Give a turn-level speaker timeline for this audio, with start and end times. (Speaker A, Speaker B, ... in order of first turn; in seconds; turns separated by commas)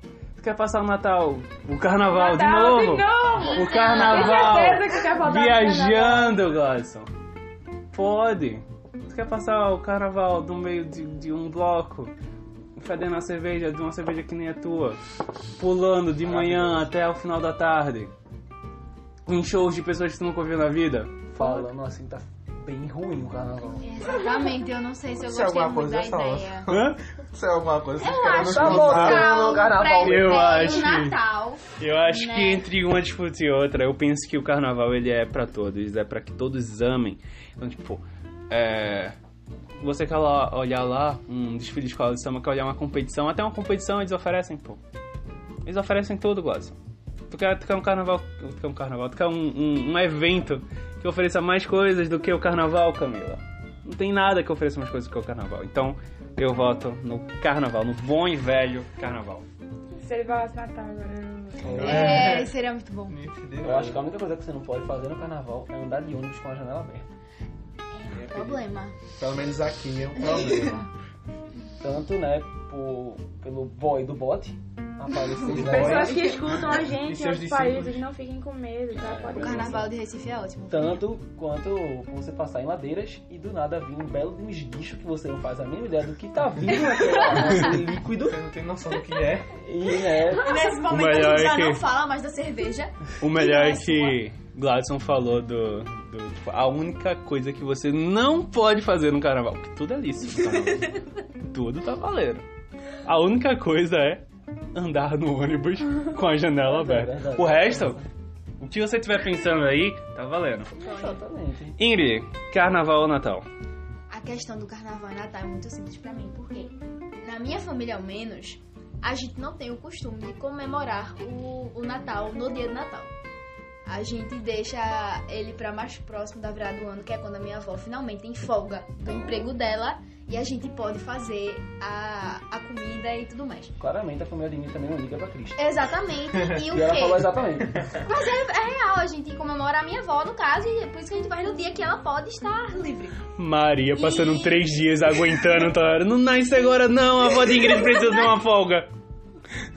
Speaker A: 0.4-7.1, Speaker B: 2.1-6.4, Speaker C: 3.4-4.7, Speaker A: 7.9-12.1, Speaker A: 12.8-15.0, Speaker A: 15.6-18.1, Speaker D: 16.2-16.9, Speaker A: 19.3-21.7, Speaker E: 21.3-24.0, Speaker C: 23.8-26.7, Speaker D: 25.3-29.6, Speaker A: 26.7-27.0, Speaker C: 28.0-32.6, Speaker E: 28.3-30.7, Speaker A: 28.8-29.4, Speaker A: 30.0-31.2, Speaker A: 31.8-39.1, Speaker A: 39.8-44.8, Speaker A: 45.6-46.8, Speaker A: 47.3-59.5, Speaker B: 60.0-62.1, Speaker D: 61.6-62.5, Speaker C: 61.8-63.2, Speaker E: 61.8-62.1, Speaker D: 63.1-64.1, Speaker E: 63.6-67.1, Speaker C: 67.9-69.0, Speaker D: 68.1-70.9, Speaker C: 70.2-70.7, Speaker E: 71.8-76.3, Speaker C: 75.2-76.5, Speaker D: 75.5-78.0, Speaker B: 75.5-79.9, Speaker E: 78.9-79.9, Speaker C: 79.3-81.0, Speaker E: 80.7-88.4, Speaker D: 88.1-89.5, Speaker E: 89.5-90.6, Speaker C: 90.3-94.2, Speaker A: 90.9-91.8, Speaker A: 93.2-102.5, Speaker A: 103.0-108.0, Speaker E: 106.6-108.1, Speaker A: 108.6-110.7, Speaker C: 110.8-111.2, Speaker E: 110.8-111.8, Speaker A: 111.8-113.5, Speaker C: 114.1-123.1, Speaker C: 123.9-133.7, Speaker E: 133.8-135.7, Speaker C: 135.6-137.3, Speaker E: 136.7-137.9, Speaker C: 138.0-143.2, Speaker A: 143.4-148.9, Speaker C: 143.9-144.7